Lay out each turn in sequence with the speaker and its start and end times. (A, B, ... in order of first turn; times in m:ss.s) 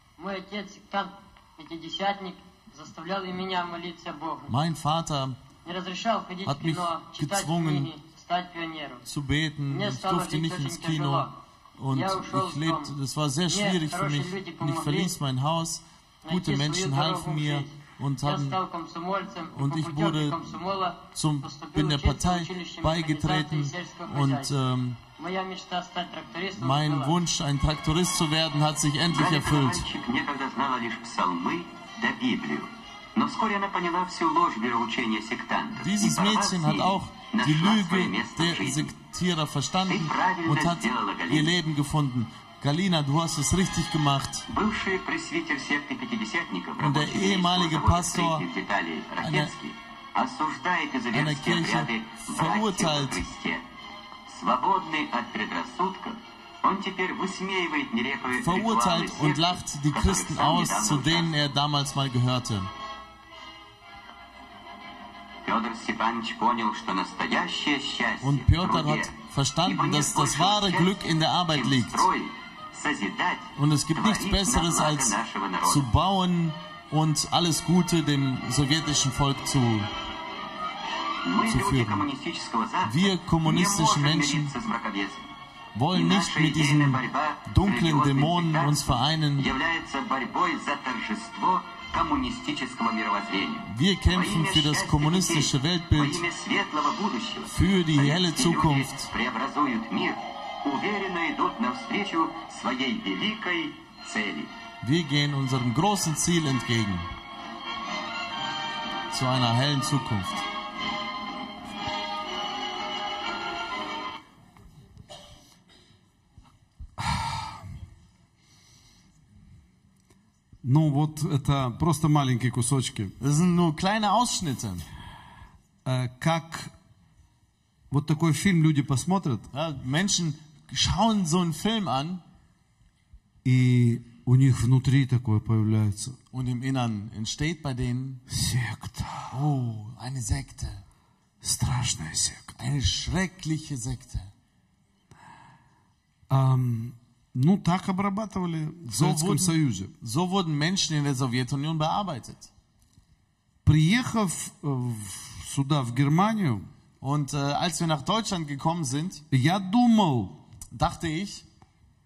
0:00.2-0:04.6 A
0:04.5-0:05.4 B
0:05.6-0:09.1 A
0:06.5-0:07.9 B
0:09.1-0:18.6 B
0:09.7-0:11.3 A
0:11.9-0:12.9 A
0:13.5-0:15.1 A
0:16.2-0:24.5 A
0:19.5-0:20.4 B
0:21.2-0:25.0 B
0:25.2-0:27.2 A
0:26.6-0:29.9 B
0:29.1-0:38.9 C
0:35.8-0:44.5 B
0:39.9-0:41.6 C
0:44.5-0:53.6 C
0:46.8-0:48.4 B
0:49.2-0:49.5 B
0:51.1-0:53.2 B
0:54.3-1:01.3 C
0:58.3-1:02.7 B
1:05.4-1:15.9 C
1:08.2-1:12.1 B
1:13.6-1:19.9 B
1:21.3-1:25.3 C
1:21.5-1:22.1 B
1:22.8-1:24.5 B
1:25.8-1:29.5 B
1:25.9-1:44.5 C
1:33.7-1:36.2 B
1:37.5-1:39.1 B
1:44.8-1:47.1 B
1:49.1-1:50.4 B
2:00.6-2:03.1 D
2:03.2-2:04.8 B
2:05.8-2:06.7 D
2:07.9-2:09.5 D
2:09.5-2:12.2 B
2:13.4-2:16.2 D
2:16.3-2:18.2 B
2:18.3-2:19.4 D
2:19.3-2:20.8 B
2:21.4-2:22.6 D
2:22.6-2:24.3 B
2:26.3-2:29.9 D
2:28.9-2:32.5 B
2:33.6-2:36.6 D
2:37.0-2:39.2 B
2:39.3-2:40.4 D
2:40.7-2:41.4 B